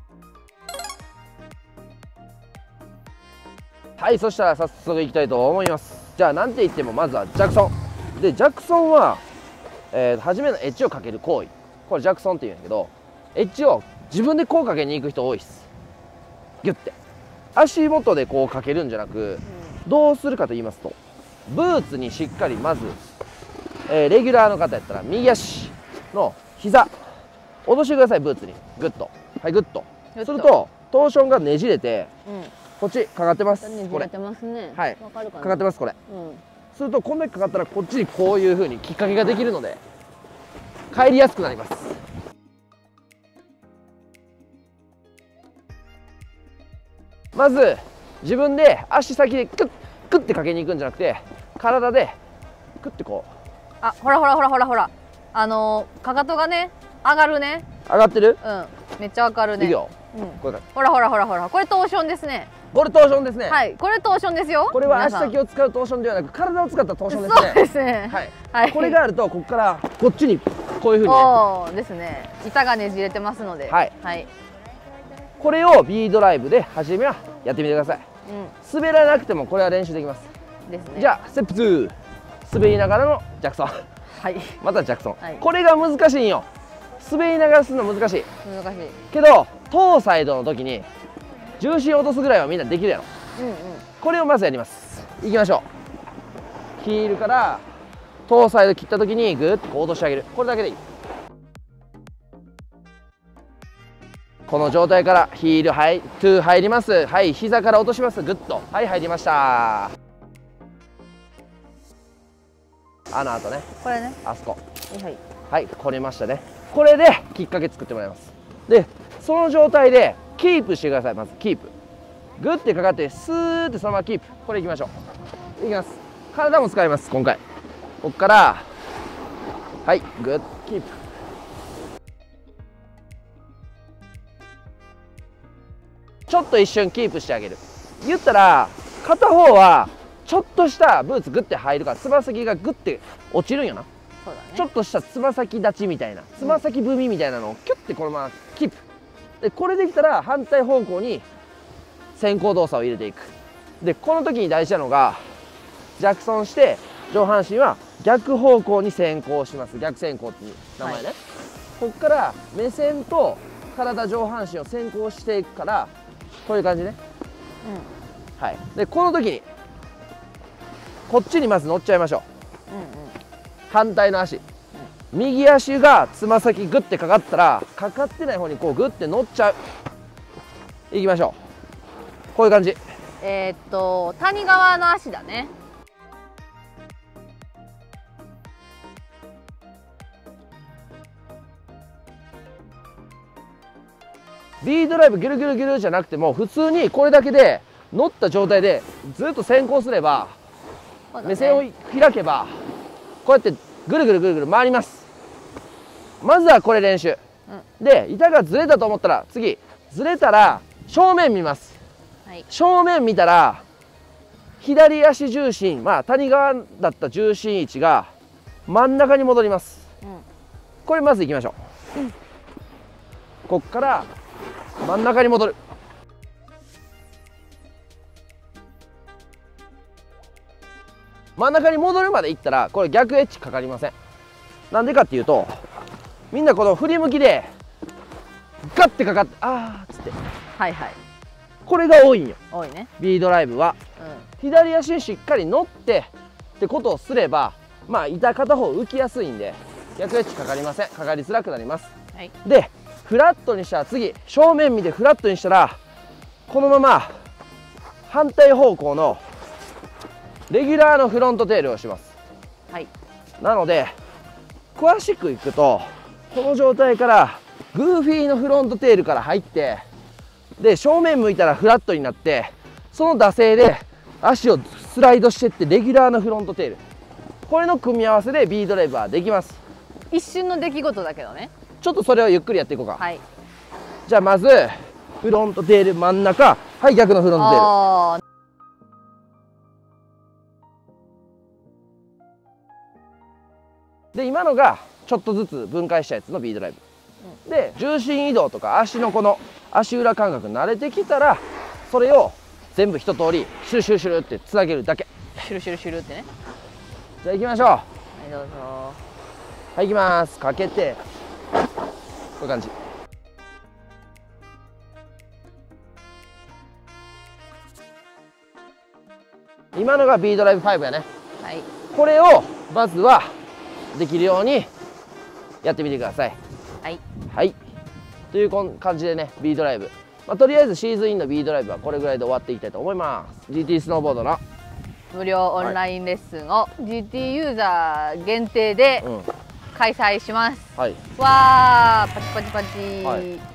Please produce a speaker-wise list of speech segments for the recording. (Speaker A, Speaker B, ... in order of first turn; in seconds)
Speaker A: 4.0-9.2, 9.9-15.7, 16.6-16.9, 17.5-20.9, 21.5-23.0, 23.9-26.9, 27.6-32.1, 32.8-34.1, 34.7-36.0, 36.7-39.8, 40.9-42.0, 47.3-52.2, 52.8-53.3, 57.9-58.4, 59.6-60.6, 62.7-63.6, 64.7-71.4, 73.7-73.9, 75.4-78.0, 78.6-80.3, 81.0-83.8, 84.6-86.5, 87.0-88.3, 89.1-90.9, 91.6-93.1, 94.0-95.7, 96.8-97.6, 98.3-100.8, 104.5-110.0, 113.1-113.7, 114.2-114.6, 115.5-121.7, 122.4-124.9, 125.6-127.4, 128.0-128.7, 129.8-131.0, 136.3-143.9, 144.6-148.8, 149.4-151.2, 152.1-155.2, 156.0-161.2, 161.8-165.9, 166.4-167.0, 168.4-169.4, 171.1-172.2, 173.7-174.4, 175.1-179.6, 180.9-181.3, 182.3-182.8, 194.6-200.3, 201.2-202.6, 203.2-205.1, 206.2-207.2, 207.8-211.8, 212.5-213.6, 214.6-218.1, 218.7-219.8, 220.8-221.6, 223.5-224.1, 224.8-225.6, 231.4-233.9, 234.7-235.7, 236.3-237.5, 238.6-240.2, 241.7-242.4, 243.0-243.8, 244.4-251.9, 252.4-255.8, 256.5-257.1, 258.1-259.2, 260.5-262.1, 263.4-263.9, 264.7-269.8, 270.6-276.8, 277.5-279.6, 281.8-283.0, 284.1-287.7, 294.1-296.8, 297.4-305.1, 307.2-307.9, 309.7-311.0, 312.4-312.7, 319.7-321.1, 321.9-323.3, 323.9-324.7, 325.6-326.4, 327.3-327.6, 328.3-334.4, 339.0-339.3, 340.8-341.0
Speaker B: 30.1-30.5, 32.2-32.5, 33.6-36.4, 53.8-57.7, 58.4-62.5, 63.5-65.3, 67.1-69.0, 71.0-74.3, 78.2-78.5, 80.7-81.1, 84.1-84.6, 88.4-89.0, 93.3-93.8, 113.8-114.2, 114.9-115.2, 144.2-144.7, 167.6-167.9, 172.7-173.2, 183.2-185.5, 201.1-201.6, 240.6-241.0, 242.5-242.9, 244.0-244.3, 280.1-281.5, 283.0-283.2, 287.4-288.2, 305.3-306.3, 308.1-309.0, 321.4-321.7, 335.1-339.1, 339.7-343.4